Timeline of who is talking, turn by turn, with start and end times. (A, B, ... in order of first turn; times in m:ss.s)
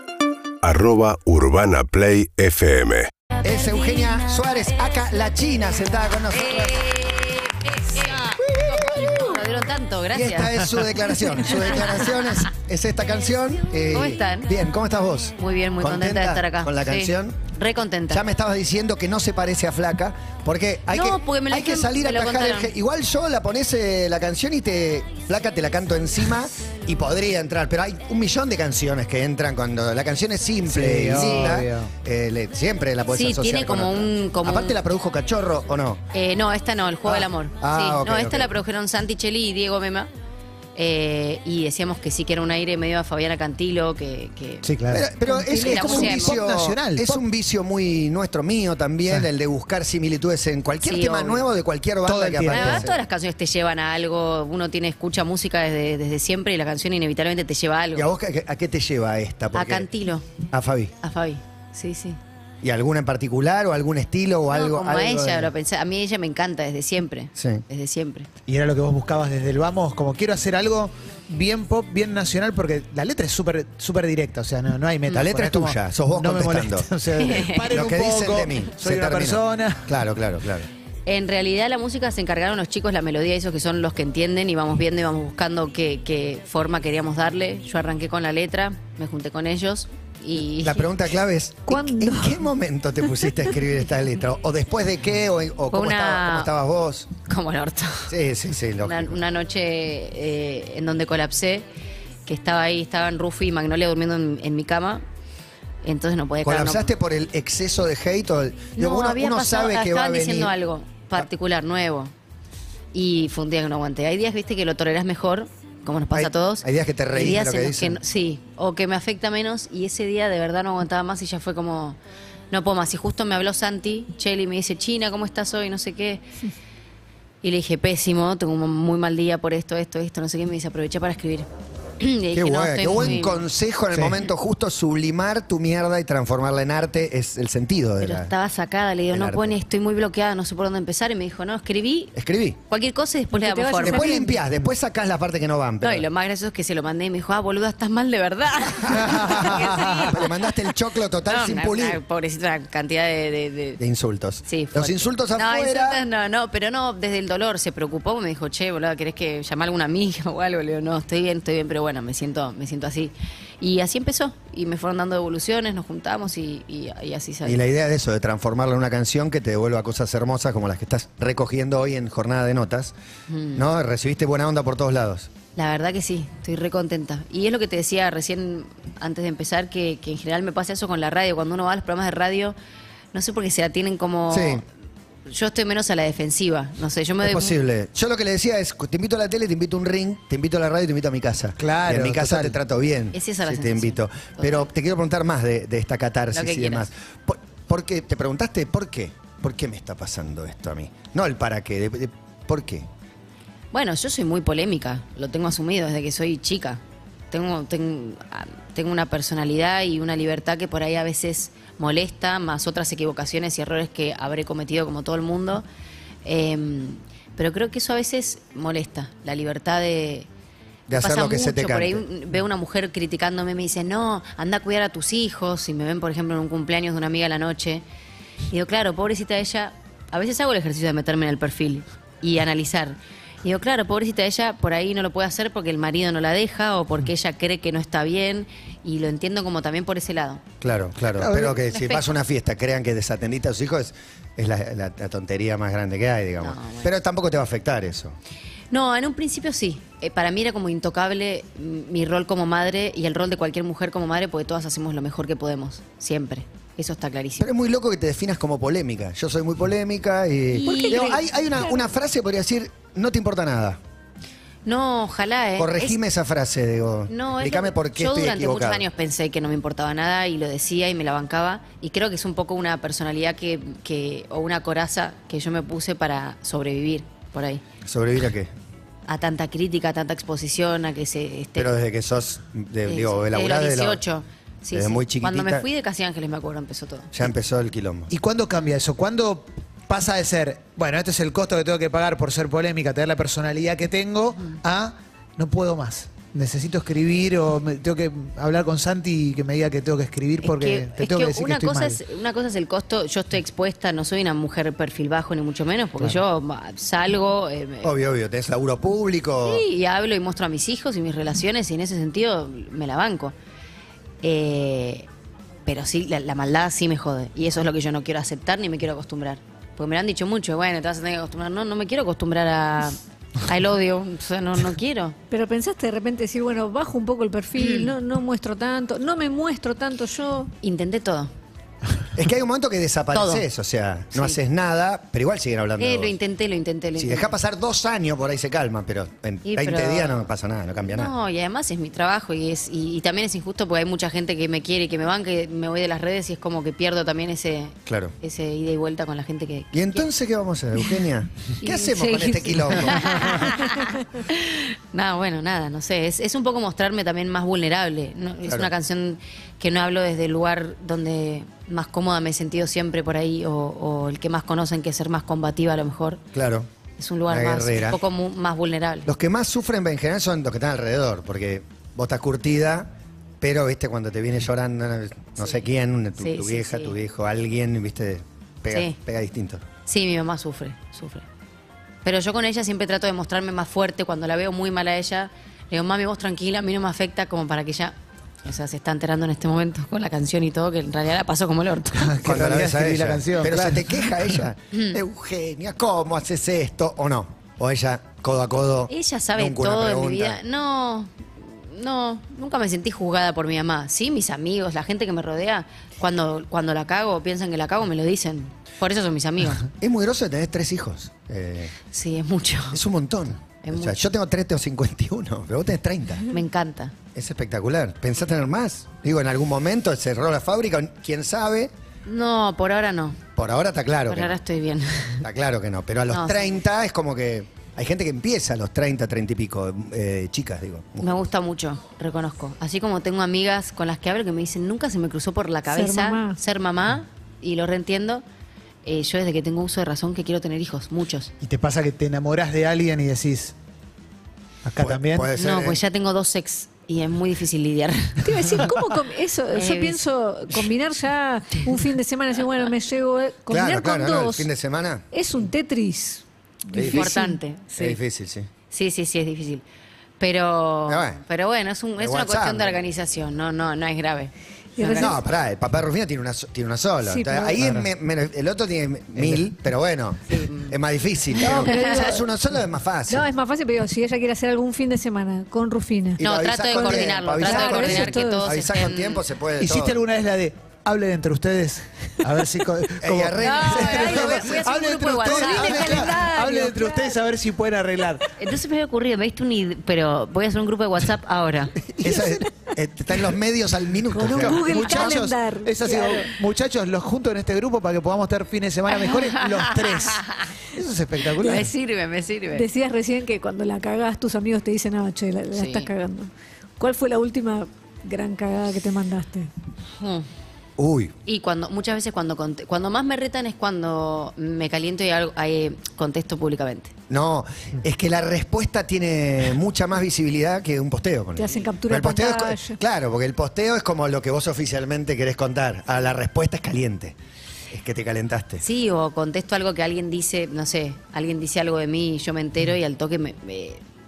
0:00.6-0:03.1 A
0:03.4-0:06.7 B
0:06.3-0:10.6 C
0:08.6-0:09.3 B
0:10.1-0:17.4 B
0:13.9-0:14.5 C
0:15.4-0:18.2 C
0:18.1-0:36.0 B
0:20.9-0:22.7 C
0:30.6-0:31.9 D
0:31.2-0:31.5 C
0:33.1-0:34.8 C
0:36.1-0:40.1 C
0:37.1-0:38.6 B
0:40.8-0:44.7 C
0:44.6-0:47.2 D
0:44.9-0:53.0 B
0:45.5-0:46.4 C
0:50.8-0:51.5 C
0:52.0-0:52.9 D
0:52.5-0:58.1 C
0:58.0-0:59.9 B
0:59.5-1:00.3 C
1:00.5-1:00.9 B
1:01.0-1:02.2 C
1:02.6-1:05.5 B
1:04.5-1:08.3 C
1:07.4-1:07.6 B
1:08.5-1:20.0 D
1:15.1-1:16.9 B
1:17.1-1:17.7 C
1:17.6-1:20.7 B
1:21.1-1:31.0 C
1:30.6-1:37.1 B
1:31.7-1:32.4 E
1:35.7-1:36.5 C
1:37.2-1:38.1 C
1:38.1-1:39.2 B
1:38.8-1:41.7 C
1:42.3-1:45.0 C
1:45.8-1:46.9 C
1:46.4-1:50.5 B
1:48.8-1:52.1 C
1:52.9-2:02.0 C
1:56.1-1:58.0 B
2:02.5-2:06.3 C
2:07.4-2:11.5 C
2:12.0-2:13.5 C
2:12.3-2:18.3 B
2:13.9-2:14.2 D
2:18.0-2:22.2 C
2:19.1-2:19.5 B
2:22.2-2:22.6 B
2:22.7-2:24.2 C
2:23.3-2:24.4 E
2:23.8-2:26.1 B
2:25.8-2:30.5 C
2:29.0-2:32.0 B
2:31.2-2:33.8 C
2:33.8-2:36.0 B
2:34.5-2:47.6 C
2:47.4-2:53.0 B
2:53.3-2:53.7 C
2:53.6-2:55.3 B
2:55.6-3:02.6 C
3:03.1-3:04.6 C
3:04.3-3:04.6 B
3:05.3-3:07.6 C
3:07.2-3:22.9 B
3:11.6-3:12.6 D
3:13.1-3:14.6 C
3:16.3-3:16.9 C
3:23.7-3:35.7 C
3:36.2-3:40.3 C
3:40.9-3:42.0 B
3:40.9-3:47.8 C
3:48.5-4:00.4 C
4:00.6-4:08.2 B
4:01.2-4:01.6 D
4:01.3-4:02.1 C
4:06.4-4:06.9 C
4:08.7-4:17.5 C
4:17.4-4:23.8 B
4:20.5-4:21.2 C
4:20.5-4:21.8 E
4:24.7-4:26.0 C
4:25.6-4:28.8 B
4:27.1-4:37.6 C
4:37.8-4:38.5 B
4:39.1-4:41.7 C
4:41.6-4:44.0 B
4:42.9-4:47.1 C
4:44.7-4:45.6 B
4:47.1-4:48.1 B
4:48.1-5:02.0 D
5:00.4-5:07.9 C
5:07.8-5:09.6 B
5:09.4-5:13.4 C
5:14.2-5:15.1 C
5:15.7-5:25.2 C
5:25.3-5:30.5 E
5:27.6-5:27.9 C
5:30.6-5:31.3 C
5:32.2-5:36.2 B
5:33.2-5:33.4 D
5:35.8-5:37.4 C
5:37.0-5:41.1 B
5:39.4-5:50.0 C
5:47.9-5:48.1 B
5:49.7-5:53.5 B
5:51.6-6:06.2 C
6:06.3-6:06.7 B
6:07.0-6:09.1 C
6:07.3-6:08.0 B
6:09.1-6:19.6 B
6:16.2-6:17.0 C
6:18.7-6:19.0 C
6:19.9-6:21.3 C
6:22.0-6:32.2 C
6:31.9-6:34.4 D
6:32.2-6:40.4 B
6:34.7-6:35.0 C
6:38.9-6:49.7 C
6:49.8-6:51.8 B
6:51.9-6:52.8 C
6:52.7-6:56.3 B
6:53.6-6:54.1 C
6:56.3-6:57.0 C
6:57.2-7:01.7 B
7:02.1-7:03.2 C
7:03.4-7:04.4 B
7:04.1-7:05.2 C
7:05.2-7:11.1 B
7:06.1-7:06.6 C
7:11.0-7:18.2 C
7:15.7-7:16.4 E
7:18.8-7:21.3 C
7:21.4-7:23.6 D
7:24.6-7:25.3 D
7:24.8-7:25.8 B
7:25.3-7:28.3 C
7:28.2-7:34.5 E
7:29.5-7:30.0 C
7:33.5-7:35.0 B
7:35.1-7:37.4 E
7:36.7-7:37.1 B
7:36.8-7:38.0 C
7:37.8-7:38.5 B
7:38.7-7:39.6 C
7:40.2-7:45.2 C
7:40.9-7:41.2 B
7:42.0-7:42.8 B
7:44.8-7:45.2 E
7:44.9-7:53.3 B
7:47.0-7:47.6 E
7:47.6-7:47.9 D
7:49.2-7:49.5 D
7:50.3-7:50.7 C
7:51.4-7:52.3 E
7:51.4-7:52.1 C
7:53.1-7:58.5 E
7:56.2-8:00.0 B
7:56.2-7:59.2 C
7:59.6-8:08.3 D
8:03.0-8:04.7 B
8:03.4-8:06.1 C
8:05.3-8:07.2 E
8:05.4-8:06.1 B
8:08.4-8:11.8 C
8:12.0-8:15.2 B
8:12.0-8:12.5 D
8:14.1-8:16.3 E
8:14.2-8:21.7 D
8:19.1-8:20.5 C
8:21.4-8:22.7 C
8:22.5-8:29.5 E
8:25.5-8:25.9 C
8:30.0-8:30.3 C
8:30.8-8:31.1 B
8:31.3-8:36.9 C
8:37.1-8:47.2 B
8:41.4-8:42.8 E
8:47.7-8:48.6 B
8:48.6-8:53.8 C